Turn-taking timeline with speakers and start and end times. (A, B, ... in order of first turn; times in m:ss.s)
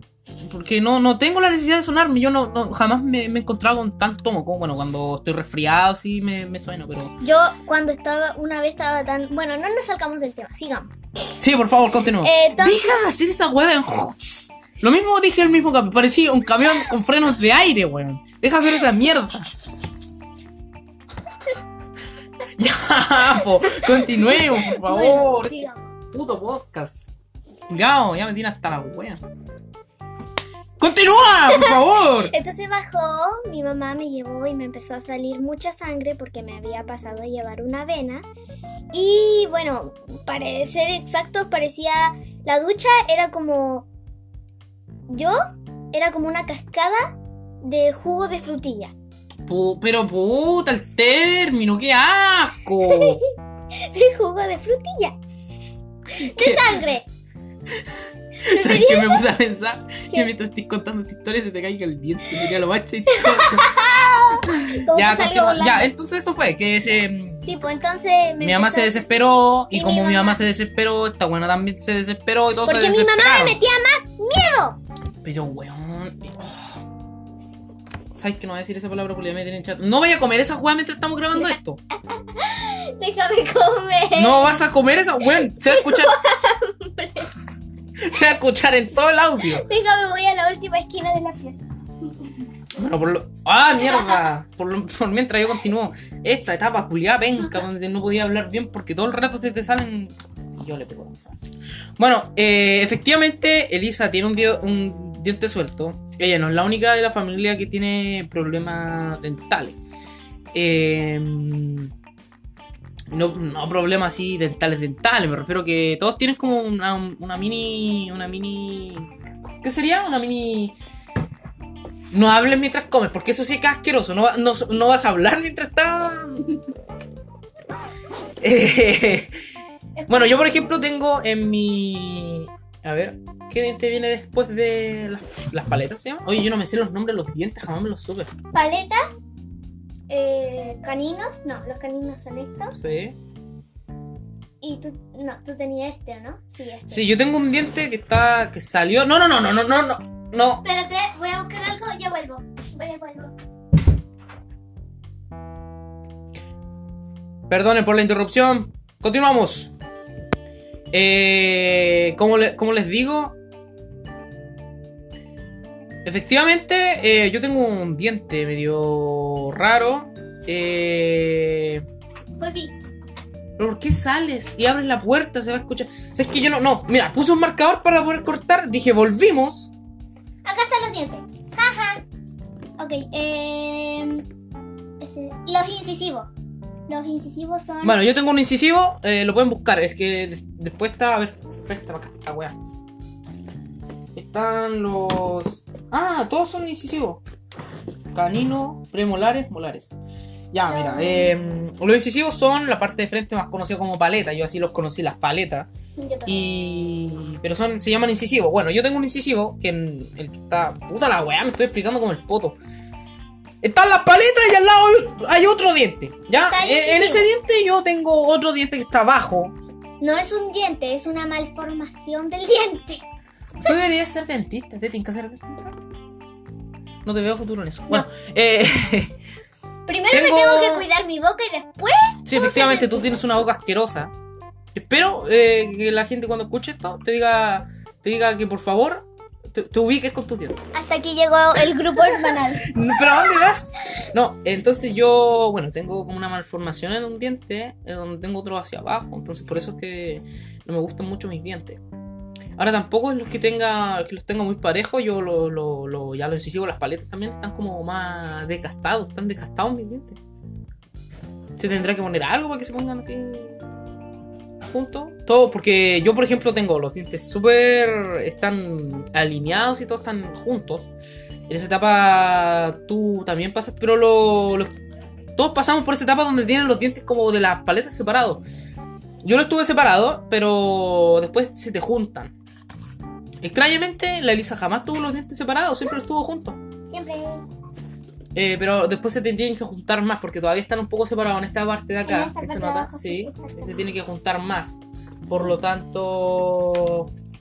0:00.4-0:07.2 A
0:07.2-0:10.9 B
0:11.3-0:19.5 A
0:12.2-0:13.0 B
0:22.6-0:25.6 A
0:23.6-0:25.9 B
0:26.1-0:27.0 A
0:27.7-0:29.2 A
0:30.8-0:32.3 A
0:31.5-0:38.3 B
0:38.9-0:43.9 B
0:45.1-0:45.4 B
0:45.9-0:48.9 B
0:49.5-0:53.2 A
0:52.8-0:55.2 B
0:56.1-0:57.1 B
0:56.2-0:56.8 A
0:58.4-1:03.7 A
0:58.5-0:59.3 B
1:03.1-1:05.9 B
1:04.5-1:07.5 A
1:07.4-1:09.0 B
1:08.4-1:13.6 A
1:09.7-1:10.4 B
1:12.6-1:14.8 B
1:15.2-1:16.8 A
1:18.2-1:21.8 A
1:22.2-1:24.6 B
1:24.1-1:26.2 A
1:25.2-1:27.3 B
1:28.0-1:29.7 A
1:29.5-1:31.6 B
1:32.7-1:49.8 A
1:33.8-1:34.2 B
1:50.5-1:51.9 A
1:53.1-2:00.8 A
2:02.1-2:06.5 A
2:08.4-2:09.4 A
2:10.0-2:10.6 B
2:10.1-2:18.3 A
2:18.5-2:19.2 B
2:20.1-2:22.8 B
2:22.8-2:23.2 A
2:24.6-2:27.1 B
2:26.9-2:30.6 A
2:30.6-2:33.3 B
2:37.5-2:39.7 A
2:40.9-2:43.4 A
2:46.0-2:51.8 A
2:52.4-2:52.7 B
2:53.6-2:59.7 A
3:00.4-3:02.0 B
3:02.8-3:04.3 B
3:05.0-3:06.3 B
3:06.9-3:08.0 B
3:07.8-3:12.6 A
3:14.2-3:17.2 A
3:18.1-3:19.9 A
3:20.5-3:25.7 A
3:20.7-3:21.3 B
3:26.0-3:26.5 B
3:26.3-3:32.6 A
3:33.6-3:39.5 A
3:36.4-3:37.3 B
3:40.0-3:43.0 B
3:43.6-3:45.7 A
3:47.0-3:49.2 A
3:49.9-3:53.2 B
3:50.1-3:50.9 A
3:52.3-3:54.1 A
3:54.7-4:00.6 A
4:00.7-4:03.5 B
4:02.0-4:11.8 A
4:12.6-4:20.2 A
4:21.6-4:23.6 A
4:24.7-4:30.9 A
4:31.5-4:34.7 A
4:35.4-4:38.4 A
4:39.2-4:42.3 A
4:43.4-4:46.6 A
4:46.9-4:47.4 B
4:48.4-4:57.1 A
4:52.0-4:53.8 B